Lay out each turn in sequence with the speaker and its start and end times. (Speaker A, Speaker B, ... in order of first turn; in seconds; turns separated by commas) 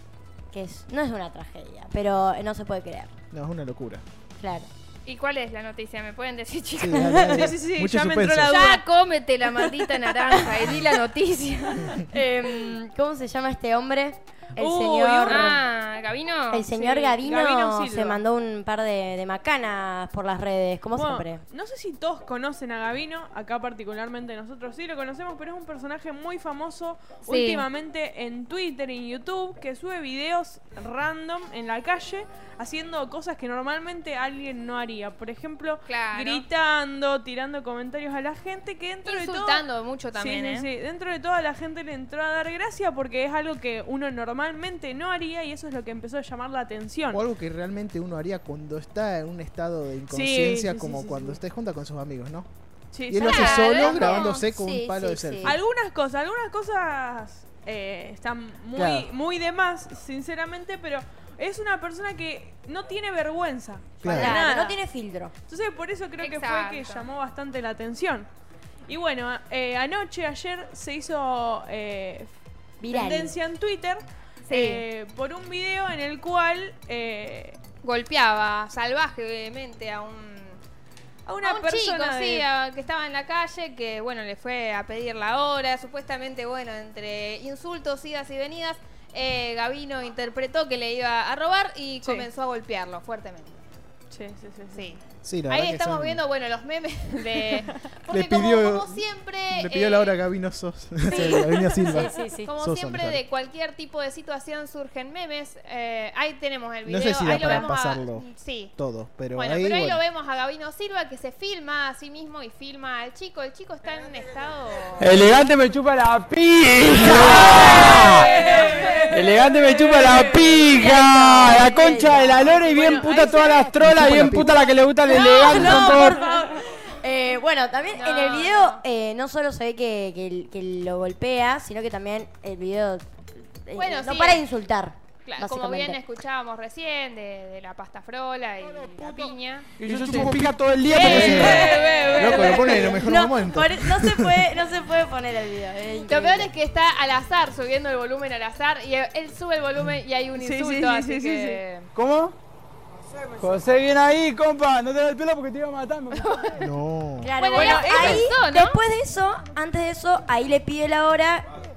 Speaker A: 0.5-3.1, Speaker B: 3.3-4.0, Speaker A: 4.4-4.7, Speaker C: 5.0-7.1, Speaker B: 6.8-8.6, Speaker A: 6.9-7.4, Speaker D: 7.3-8.8, Speaker C: 8.5-12.1, Speaker A: 10.3-10.8, Speaker A: 12.1-15.6, Speaker D: 14.6-15.6, Speaker C: 15.3-16.6, Speaker A: 16.5-21.4, Speaker D: 16.7-18.2, Speaker D: 20.9-47.2, Speaker C: 27.2-27.6, Speaker C: 35.9-36.4, Speaker C: 39.0-40.7, Speaker B: 47.1-52.5, Speaker D: 50.1-51.4, Speaker D: 52.9-53.9, Speaker B: 53.1-55.6, Speaker C: 53.2-54.4, Speaker A: 53.8-55.6, Speaker D: 55.4-64.8, Speaker B: 58.8-59.1, Speaker B: 64.0-64.4, Speaker A: 64.1-65.3, Speaker D: 65.5-68.3, Speaker C: 66.2-67.0, Speaker D: 68.9-72.3, Speaker A: 72.8-73.3, Speaker D: 72.9-77.6, Speaker C: 74.5-74.8, Speaker C: 77.8-80.6, Speaker D: 81.2-82.5, Speaker C: 81.4-93.6, Speaker D: 92.0-92.3, Speaker D: 94.1-94.9, Speaker C: 94.7-100.2, Speaker B: 95.2-96.2, Speaker B: 98.1-103.2, Speaker C: 101.1-108.7, Speaker A: 101.9-102.5, Speaker B: 106.8-110.0, Speaker D: 107.4-107.7, Speaker C: 109.3-115.1, Speaker E: 115.0-118.4, Speaker C: 117.5-119.1, Speaker D: 118.2-119.0, Speaker E: 119.1-126.2, Speaker D: 119.9-120.4, Speaker A: 120.6-122.6, Speaker D: 122.6-123.7, Speaker B: 123.8-124.5, Speaker A: 125.1-136.0, Speaker D: 125.1-126.4, Speaker C: 127.9-128.8, Speaker C: 133.8-134.4, Speaker C: 135.2-140.3, Speaker E: 139.8-141.7, Speaker C: 140.9-143.0, Speaker B: 140.9-144.4, Speaker D: 141.1-143.0, Speaker A: 142.5-146.5, Speaker C: 146.1-151.9, Speaker D: 150.4-151.6, Speaker E: 151.9-152.3, Speaker E: 153.3-156.3, Speaker C: 156.2-156.6, Speaker B: 156.6-157.3, Speaker A: 157.2-161.5, Speaker C: 157.4-158.8, Speaker D: 157.5-158.3